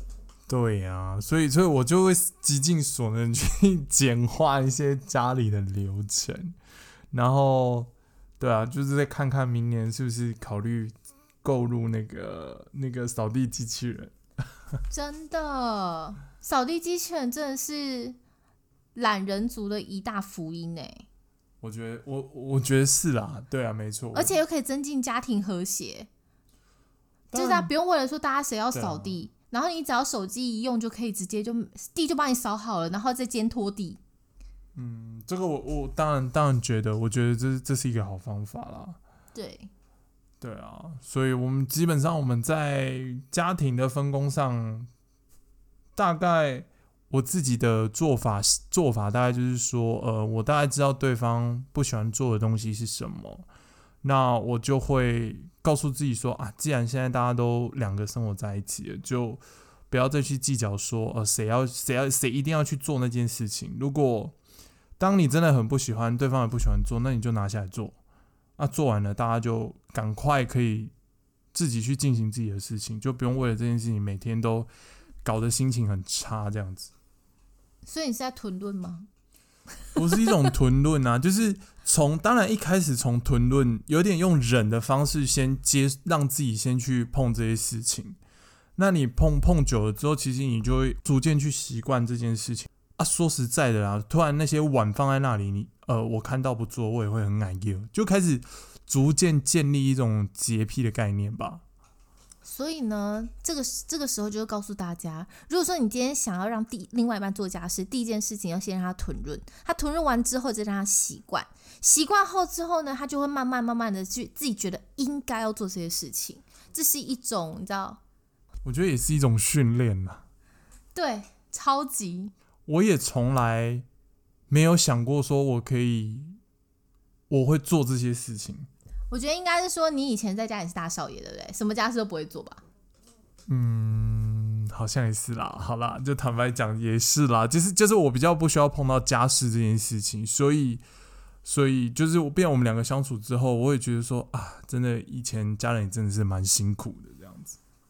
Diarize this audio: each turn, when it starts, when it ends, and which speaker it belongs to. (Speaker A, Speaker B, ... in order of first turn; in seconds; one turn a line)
Speaker A: 0.5-6.5
Speaker A: 7.1-14.2
Speaker B: 14.9-18.2
Speaker B: 18.9-21.1
Speaker A: 21.6-24.3
Speaker B: 24.1-26.1
Speaker A: 27.3-27.7
Speaker B: 27.3-34.0
Speaker A: 28.7-29.1
Speaker A: 34.8-39.0
Speaker B: 39.4-39.7
Speaker A: 40.4-44.9
Speaker A: 46.0-53.5
Speaker A: 54.0-64.4
Speaker A: 65.0-68.0
Speaker A: 68.6-70.9
Speaker A: 71.5-74.7
Speaker A: 75.2-76.9
Speaker B: 77.9-79.1
Speaker A: 80.0-88.2
Speaker A: 88.8-101.6
Speaker B: 102.4-118.0
Speaker A: 118.7-120.2
Speaker B: 120.9-122.3
Speaker A: 122.7-123.8
Speaker A: 124.5-126.4
Speaker A: 127.3-128.7
Speaker B: 129.1-132.6
Speaker A: 133.5-140.8
Speaker A: 141.4-147.6